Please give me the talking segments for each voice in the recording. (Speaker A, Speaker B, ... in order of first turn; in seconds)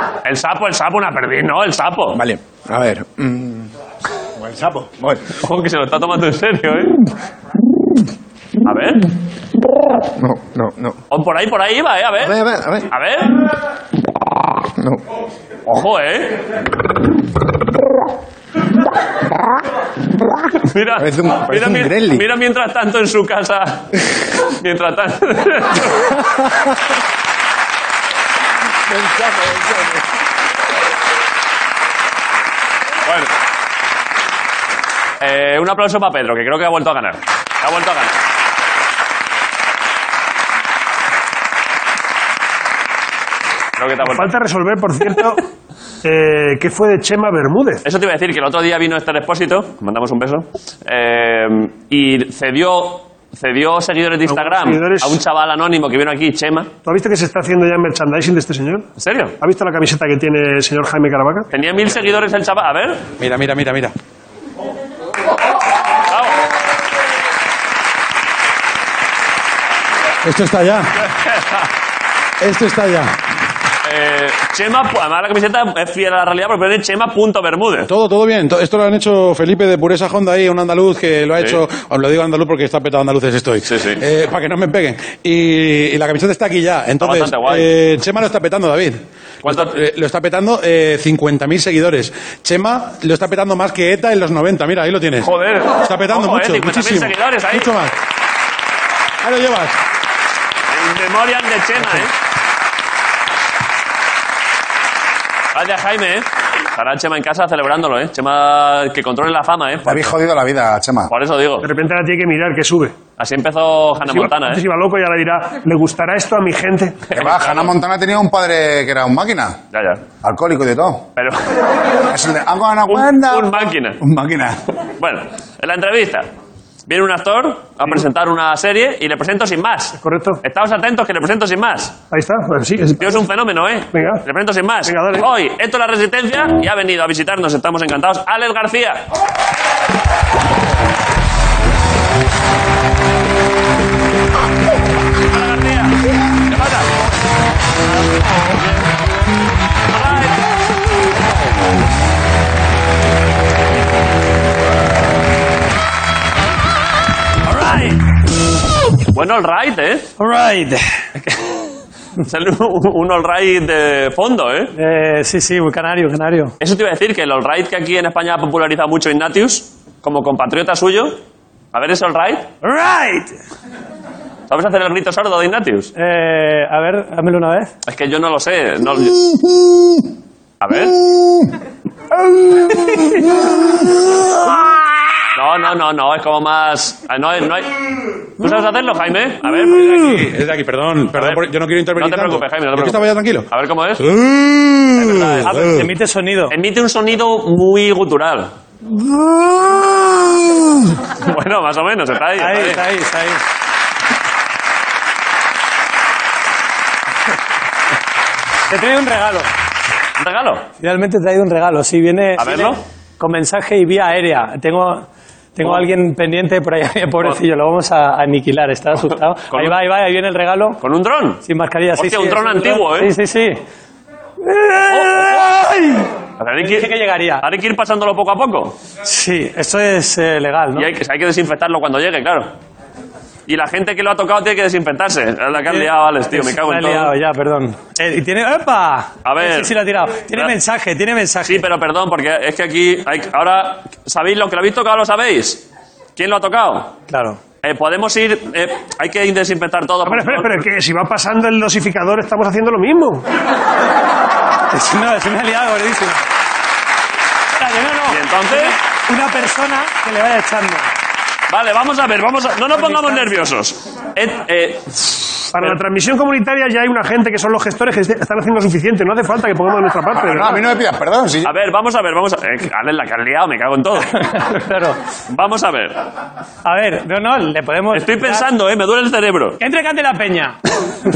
Speaker A: 0.2-2.2, 5.4-7.0, 8.6-9.1, 11.1-12.3, 12.9-13.4, 15.7-16.4, 20.6-23.9, 24.4-26.0, 35.2-38.1, 43.8-44.3, 47.8-56.7, 59.0-59.4, 61.5-63.0, 66.1-66.4, 71.0-71.7, 73.8-77.9, 83.6-84.0, 87.0-87.7, 89.4-89.7, 95.2-97.7, 100.7-102.1, 105.5-110.1, 111.1-111.7, 113.2-114.6, 117.2-117.6, 119.7-120.0, 121.2-121.4, 122.9-124.0, 125.0-126.3, 126.9-131.9, 133.0-139.0, 145.3-146.9, 149.9-150.5, 159.1-160.1, 161.2-161.6, 162.2-164.7, 166.6-171.2, 171.7-172.5, 174.5-175.9, 177.8-179.2, 180.6-181.0, 185.3-187.8, 188.4-190.1, 191.1-194.0, 194.9-195.8, 196.5-198.5, 201.2-202.9, 210.2-210.7, 212.4-212.8, 215.6-215.8, 219.5-219.8, 220.8-221.4, 222.0-223.1, 224.8-225.5, 226.4-228.8, 230.7-232.5, 233.5-237.1, 239.2-239.8, 241.4-245.6, 246.2-246.9, 247.6-250.6, 258.1-258.8, 261.5-265.2, 271.4-274.2, 275.3-276.0, 277.9-279.6
Speaker B: 2.1-3.7, 4.4-5.2, 10.2-11.0, 12.2-12.9, 21.0-22.2
Speaker C: 44.0-45.4, 46.0-47.8, 54.3-55.2, 56.8-58.9, 59.4-61.5, 111.6-113.0, 114.0-117.1, 130.0-130.4, 132.1-133.2, 133.9-134.2, 134.8-135.3, 250.0-253.2, 265.5-270.6
Speaker D: 63.2-63.9, 70.2-70.9, 72.4-73.2, 77.9-95.3, 95.8-97.9, 99.2-99.8, 189.6-193.5, 194.0-195.6
Speaker E: 109.8-111.1, 117.1-119.6, 120.2-121.0, 122.1-124.6, 270.1-271.5
Speaker F: 157.5-158.0, 160.2-160.8, 164.8-166.5, 172.6-173.3, 175.9-177.7, 195.4-196.5, 202.4-203.4, 208.7-209.5, 210.8-220.8, 221.4-223.6, 224.4-227.4, 229.0-230.9, 235.6-241.6, 247.1-247.4, 254.7-256.2, 257.6-260.9, 262.8-263.3, 274.1-275.0, 276.6-278.5, 279.6-280.6